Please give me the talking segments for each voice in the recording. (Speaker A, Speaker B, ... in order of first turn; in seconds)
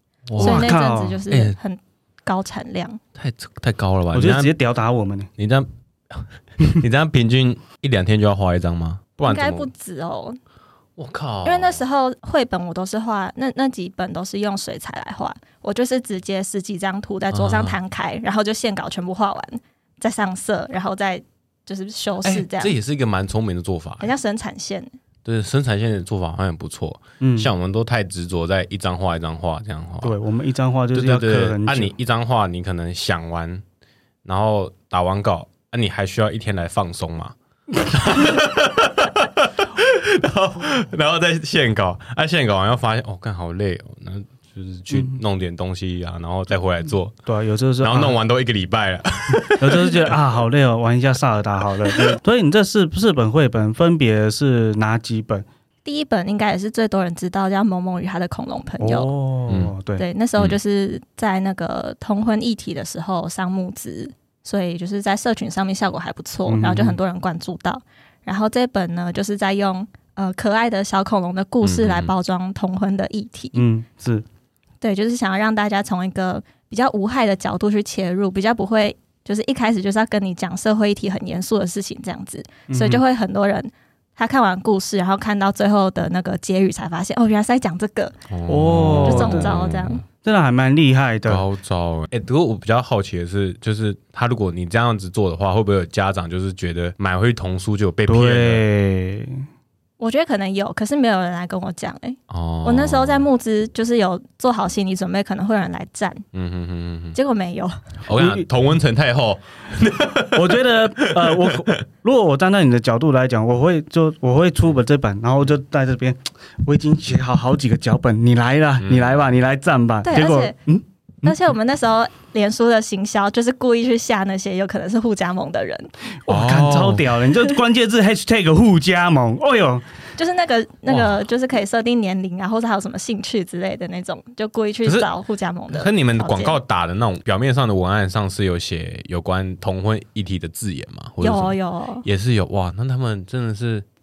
Speaker A: 0.3-0.7, 1.3-1.6, 3.1-4.5, 5.4-9.7, 11.0-11.8, 17.3-17.8, 22.2-24.1, 25.2-30.1, 30.9-33.6, 34.2-47.1, 47.8-50.1, 71.6-72.1, 88.3-90.0, 91.2-98.6, 102.3-103.3, 106.3-107.2, 108.0-111.7, 118.8-119.2, 126.3-127.2, 130.9-131.2, 135.7-143.8
Speaker B: 0.4-1.2, 4.1-5.3, 27.2-27.5, 30.0-31.9, 44.9-45.2, 47.3-48.2, 49.6-55.5, 58.8-60.0, 66.5-67.0, 73.5-74.2, 82.7-83.0, 88.5-89.6, 90.2-91.4, 98.0-99.4, 108.1-108.5, 110.3-121.4, 126.2-129.8
Speaker C: 0.4-3.0, 9.2-10.4, 11.4-22.7, 24.0-24.9, 55.8-59.1, 60.0-73.6, 74.8-88.1, 88.9-90.0, 100.0-106.2, 107.1-107.7, 120.0-120.5, 121.2-125.9, 130.2-136.6, 141.2-142.0